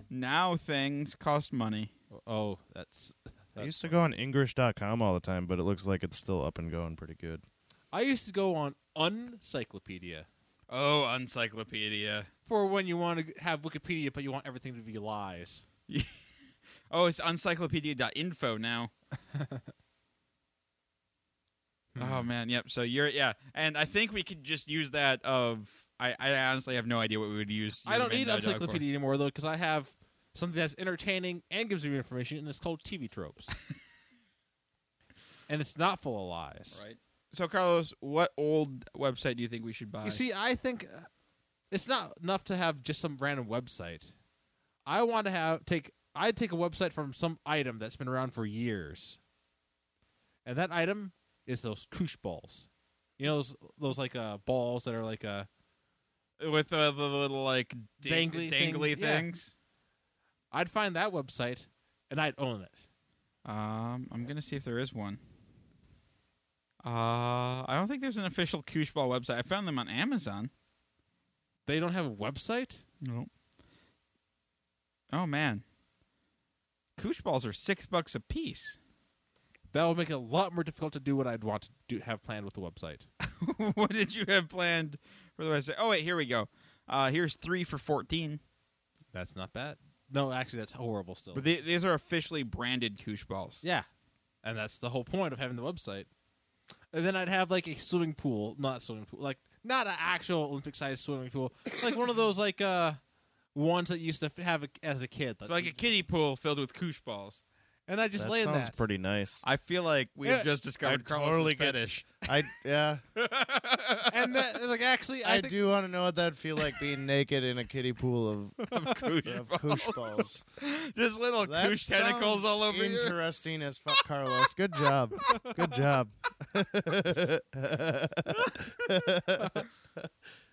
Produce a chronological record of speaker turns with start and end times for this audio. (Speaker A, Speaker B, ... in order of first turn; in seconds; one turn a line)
Speaker A: 0.1-1.9
Speaker B: 2.1-4.0
Speaker C: 3.6-7.4
Speaker B: 7.9-10.3
Speaker A: 10.7-12.3
Speaker B: 12.5-15.6
Speaker A: 16.9-18.9
Speaker B: 19.3-19.7
Speaker B: 21.9-22.3
Speaker A: 22.0-28.8
Speaker B: 27.9-33.5
Speaker B: 35.5-36.8
Speaker A: 36.7-40.2
Speaker B: 40.0-41.1
Speaker B: 41.7-44.1
Speaker B: 44.9-49.2
Speaker B: 50.5-52.7
Speaker B: 53.2-55.5
Speaker A: 56.4-59.5
Speaker B: 58.0-59.3
Speaker B: 60.5-62.8
Speaker A: 63.5-65.2
Speaker A: 66.8-70.5
Speaker B: 71.7-72.8
Speaker A: 73.0-73.3
Speaker A: 75.1-75.6
Speaker A: 77.0-78.8
Speaker B: 79.7-83.1
Speaker A: 83.2-88.4
Speaker B: 89.1-91.5
Speaker A: 91.3-93.6
Speaker B: 94.4-96.1
Speaker B: 96.9-103.0
Speaker B: 103.5-105.8
Speaker A: 105.4-107.4
Speaker B: 107.9-108.8
Speaker C: 108.2-109.4
Speaker A: 109.4-112.2
Speaker B: 110.2-110.5
Speaker C: 110.8-113.0
Speaker A: 113.2-114.5
Speaker B: 114.1-115.6
Speaker C: 115.2-120.4
Speaker A: 118.7-123.2
Speaker C: 121.4-130.1
Speaker B: 125.3-125.5
Speaker A: 128.4-128.9